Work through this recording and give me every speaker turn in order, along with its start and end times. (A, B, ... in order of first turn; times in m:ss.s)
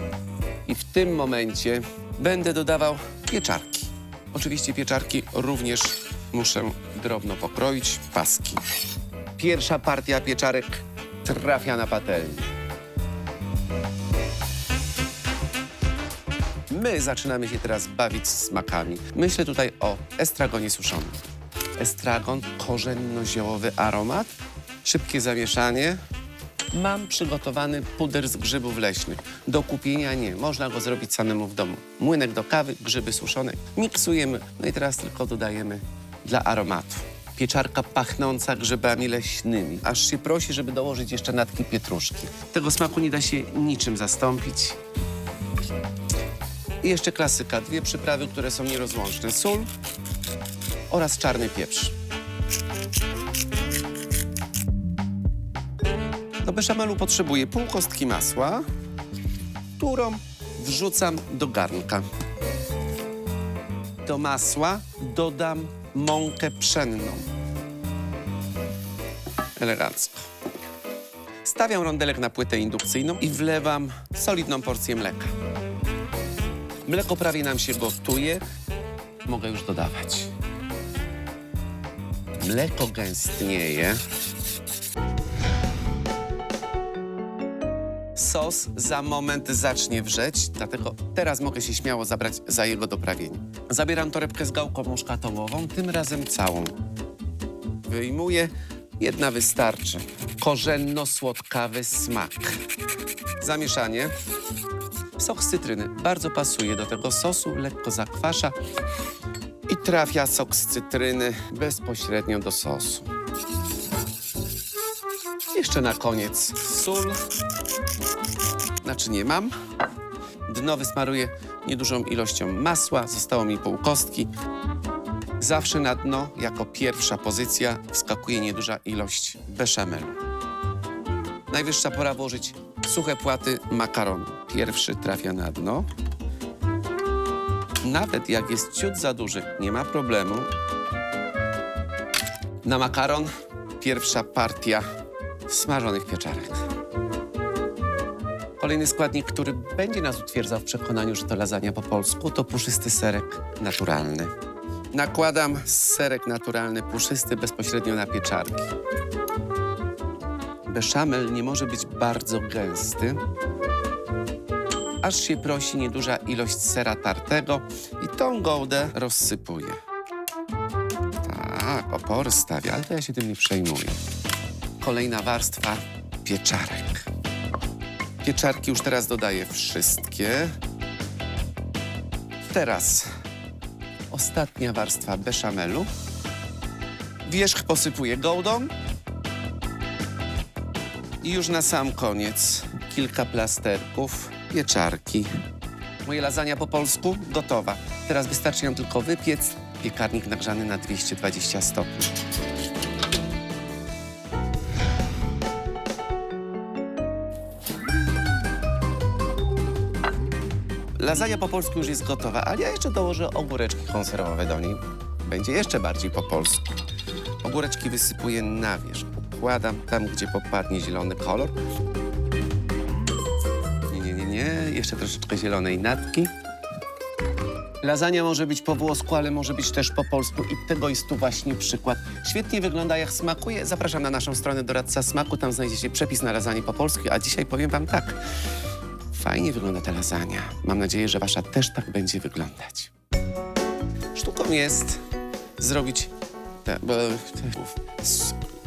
0:00.7-0:08.6 A
0:09.4-0:12.5 A
0:16.7-0:21.2 A
0:21.8-0:24.3 A
0:24.8-0:26.0 A
0:26.7-0:44.8 A
0:46.8-0:49.7 A
0:50.9-0:52.0 A
0:56.4-0:58.6 A
0:59.8-1:02.0 A
1:04.0-1:07.3 A
1:09.6-1:10.3 A
1:11.4-1:15.3 A
1:16.8-1:18.4 A
1:19.2-1:20.3 A
1:22.4-1:24.0 A
1:28.2-1:36.7 A
1:37.9-1:42.6 A
1:43.4-1:44.1 A
1:45.2-1:48.6 A
1:49.7-1:53.1 A
1:55.5-1:57.2 A
1:58.8-1:59.5 A
2:00.5-2:04.3 A
2:05.4-2:10.2 A
2:11.5-2:15.9 A
2:17.8-2:20.5 A
2:22.6-2:24.8 A
2:25.5-2:26.7 A
2:28.6-2:34.3 A
2:34.9-2:38.7 A
2:40.7-2:43.2 A
2:45.0-2:49.8 A
2:51.2-2:54.0 A
2:54.8-2:57.1 A
2:58.2-3:00.5 A
3:02.4-3:03.1 A
3:04.1-3:05.9 A
3:07.2-3:08.7 A
3:11.2-3:15.3 A
3:16.0-3:22.1 A
3:31.0-3:36.7 A
3:37.4-3:41.5 A
3:43.9-3:46.3 A
3:47.8-3:58.2 A
3:59.1-4:02.9 A
4:04.1-4:05.0 A
4:05.6-4:06.1 A
4:06.6-4:08.4 A